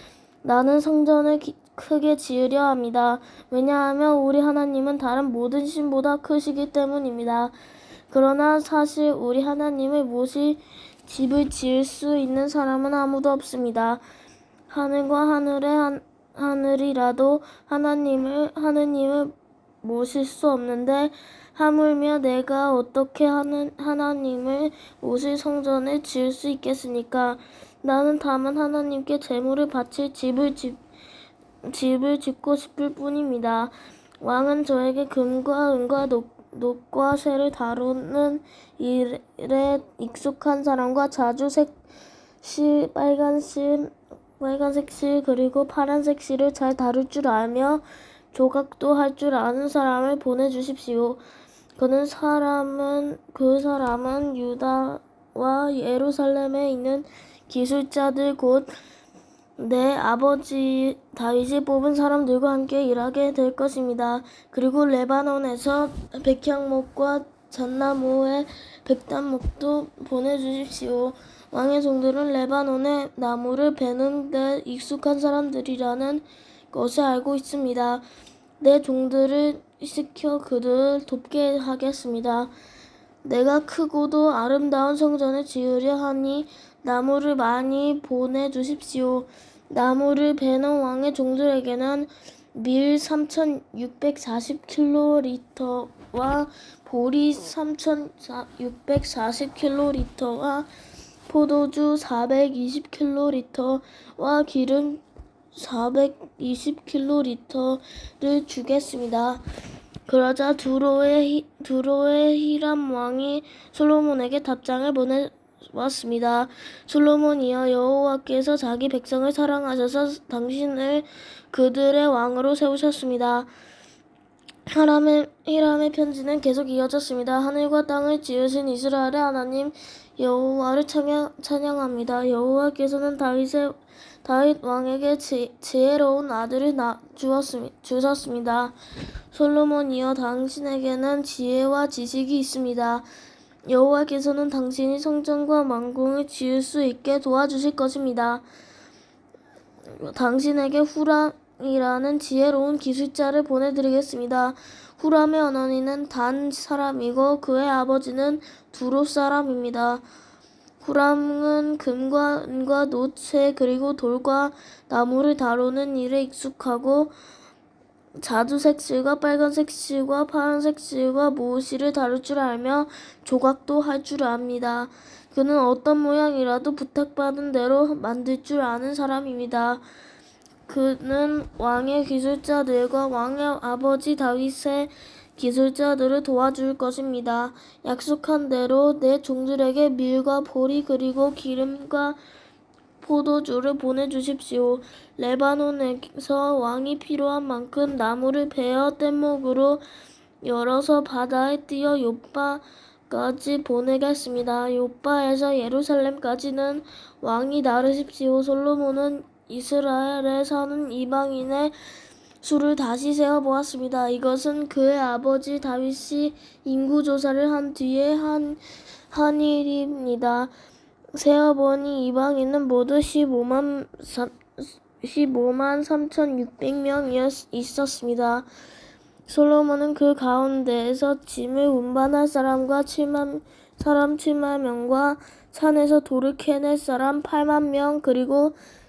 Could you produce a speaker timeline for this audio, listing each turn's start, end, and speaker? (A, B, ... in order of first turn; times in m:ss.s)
0:00.4-0:07.5 A
0:08.1-0:14.0 A
0:14.7-0:30.8 A
0:31.6-0:41.8 A
0:42.4-0:51.2 A
0:51.8-0:58.7 A
0:59.6-1:18.0 A
1:18.6-1:22.5 A
1:23.2-1:40.7 A
1:41.3-1:45.0 A
1:45.5-1:49.4 A
1:50.1-2:03.5 A
2:04.7-2:18.8 A
2:19.3-2:23.1 A
2:23.7-2:28.4 A
2:30.0-2:40.0 A
2:40.8-2:47.1 A
2:48.2-2:59.8 A
3:00.7-3:12.2 A
3:13.0-3:19.8 A
3:20.4-3:31.8 A
3:32.4-3:40.5 A
3:41.1-3:48.5 A
3:49.3-3:58.6 A